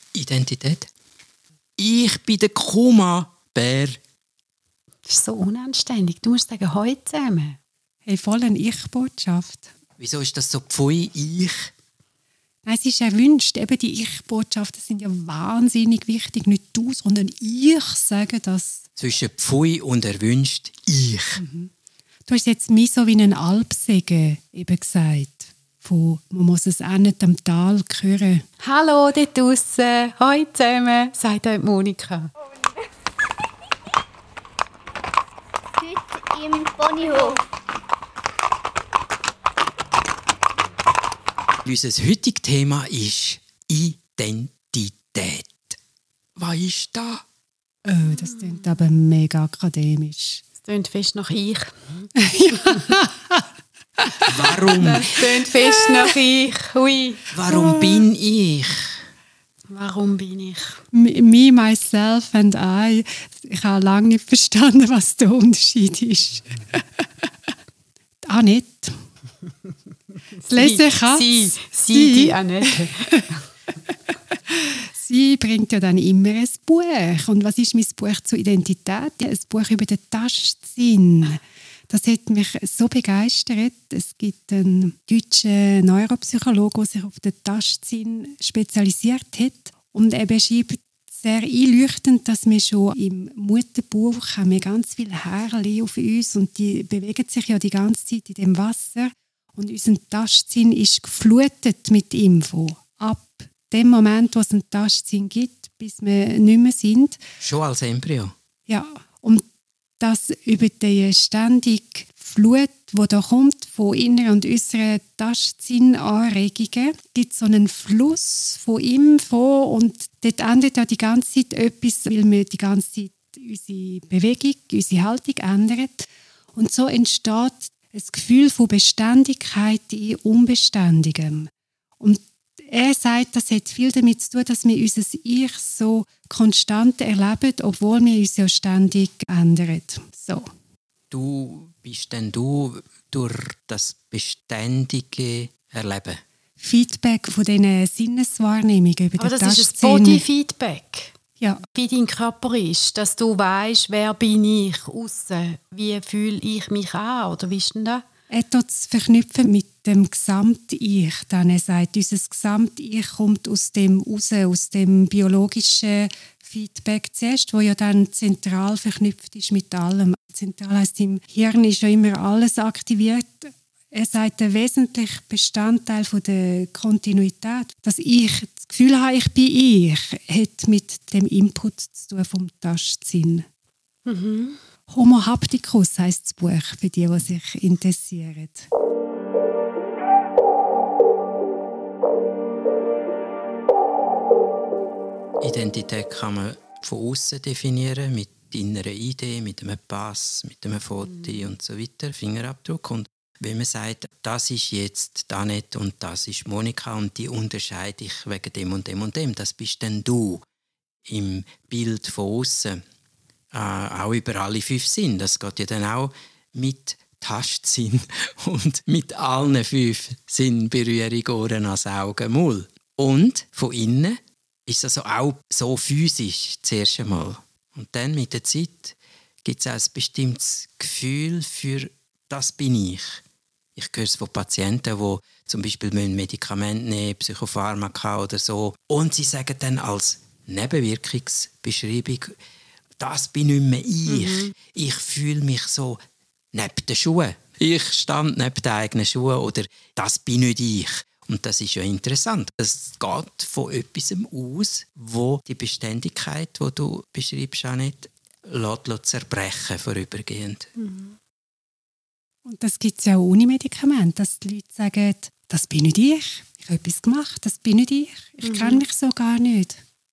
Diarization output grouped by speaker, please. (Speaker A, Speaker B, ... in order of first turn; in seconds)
Speaker A: 0.1-0.9, 1.8-4.0, 10.0-11.7, 19.0-21.4, 41.6-45.8, 46.4-47.2, 54.2-55.2, 57.3-59.0, 107.4-108.3, 141.1-146.2, 195.4-210.4, 211.1-212.8, 213.5-233.2, 233.8-242.3, 243.0-246.0, 246.5-260.7
Speaker B: 5.0-7.6, 28.6-32.3, 36.4-37.3, 48.1-48.7, 50.6-52.1, 54.8-57.3, 59.7-60.8, 70.5-73.3, 149.2-151.1, 151.7-158.0, 184.0-184.6, 201.0-201.5, 244.1-244.5, 260.8-261.2, 268.4-268.8
Speaker C: 8.1-9.7, 12.6-18.8, 21.4-21.7, 22.3-28.4, 47.8-50.4, 52.1-53.4, 54.0-55.1, 55.8-56.1, 57.5-58.0, 60.9-67.5, 68.2-69.0, 70.5-73.3, 74.5-107.2, 108.7-109.4, 110.0-140.5, 146.6-150.2, 158.3-183.4, 184.9-188.7, 262.4-269.8